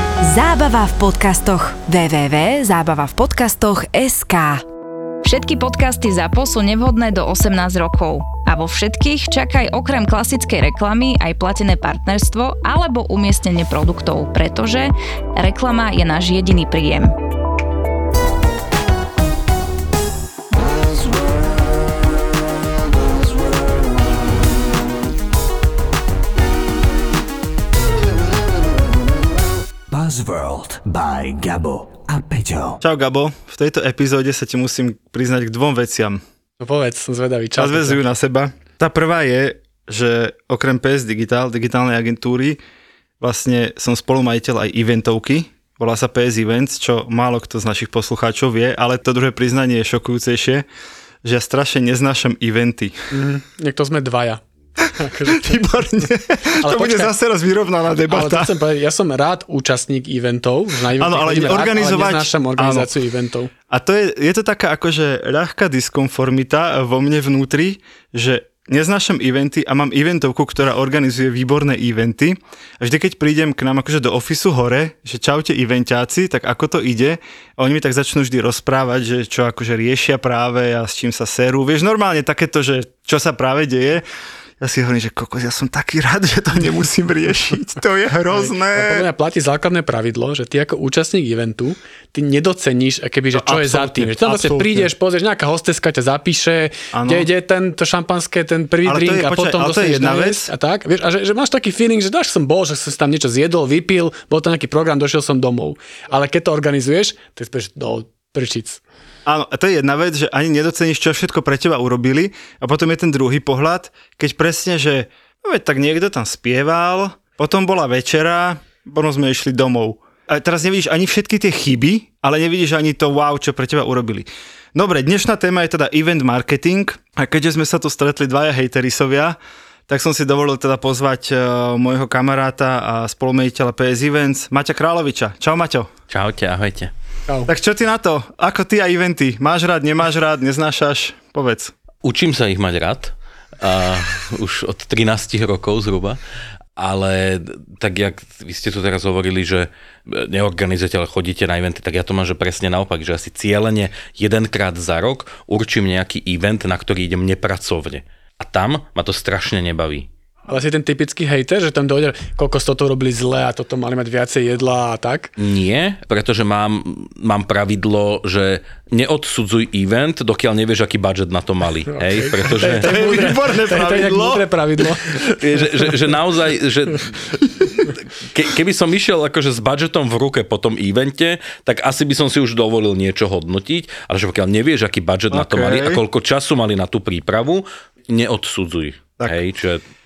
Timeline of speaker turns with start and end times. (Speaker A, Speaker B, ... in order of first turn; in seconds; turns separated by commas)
Speaker A: 0.2-4.6, Speaker B: 5.2-17.1, Speaker C: 29.9-32.8, Speaker D: 32.8-36.2, Speaker E: 36.6-38.0, Speaker D: 37.6-42.6, Speaker D: 43.2-50.6, Speaker D: 51.2-53.1, Speaker E: 53.1-54.4, Speaker E: 55.0-55.6, Speaker D: 55.3-58.5, Speaker E: 56.6-57.1, Speaker E: 58.1-63.5, Speaker D: 61.0-62.9, Speaker D: 63.7-84.0, Speaker D: 84.6-89.1, Speaker E: 88.3-108.8, Speaker D: 93.3-94.9, Speaker D: 96.9-97.3, Speaker D: 98.8-100.5, Speaker D: 109.2-129.4, Speaker D: 129.9-135.9, Speaker F: 136.1-136.9, Speaker D: 137.5-141.7, Speaker F: 142.0-146.2, Speaker F: 146.8-160.1, Speaker E: 160.5-165.3, Speaker F: 165.4-173.3, Speaker E: 171.9-175.3, Speaker D: 172.6-174.4, Speaker F: 175.3-189.8, Speaker D: 185.3-186.0